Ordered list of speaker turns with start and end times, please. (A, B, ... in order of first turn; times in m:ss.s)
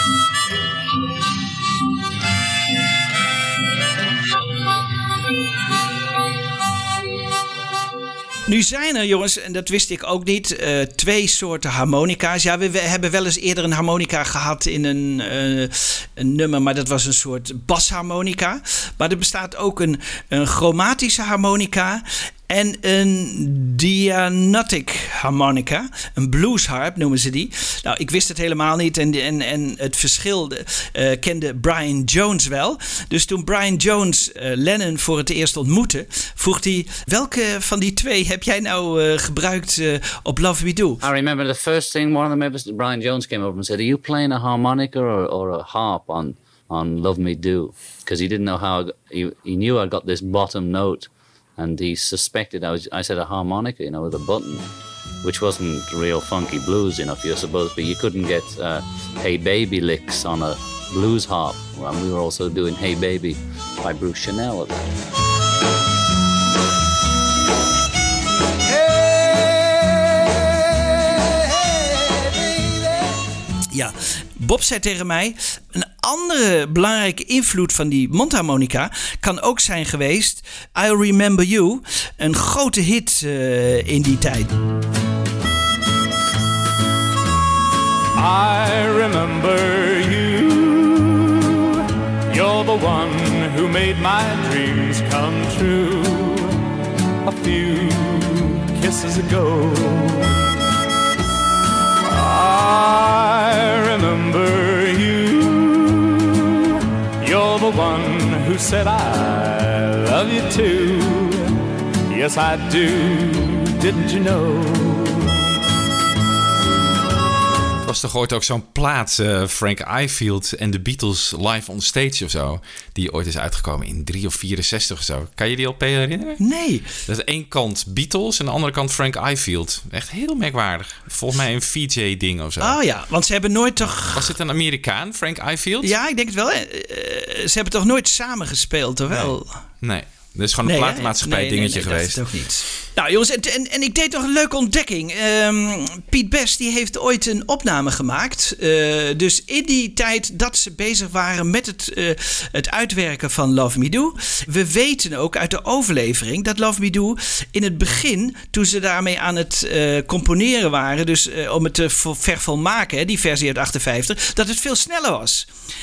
0:08.5-0:41.0 A
0:41.0-0:54.6 B
0:55.2-1:04.8 B
1:13.7-1:24.5 A
1:28.2-1:31.8 C
1:32.3-1:36.6 C
1:37.2-1:40.3 C
1:42.0-1:46.7 C
1:47.2-1:51.5 C
1:52.1-1:55.3 C
1:57.8-2:06.4 D
2:06.4-2:06.9 A
2:07.0-2:12.8 D
2:12.6-2:14.2 A
2:14.0-2:15.9 D
2:15.8-2:19.5 A
2:19.1-2:22.2 D
2:20.6-2:45.5 A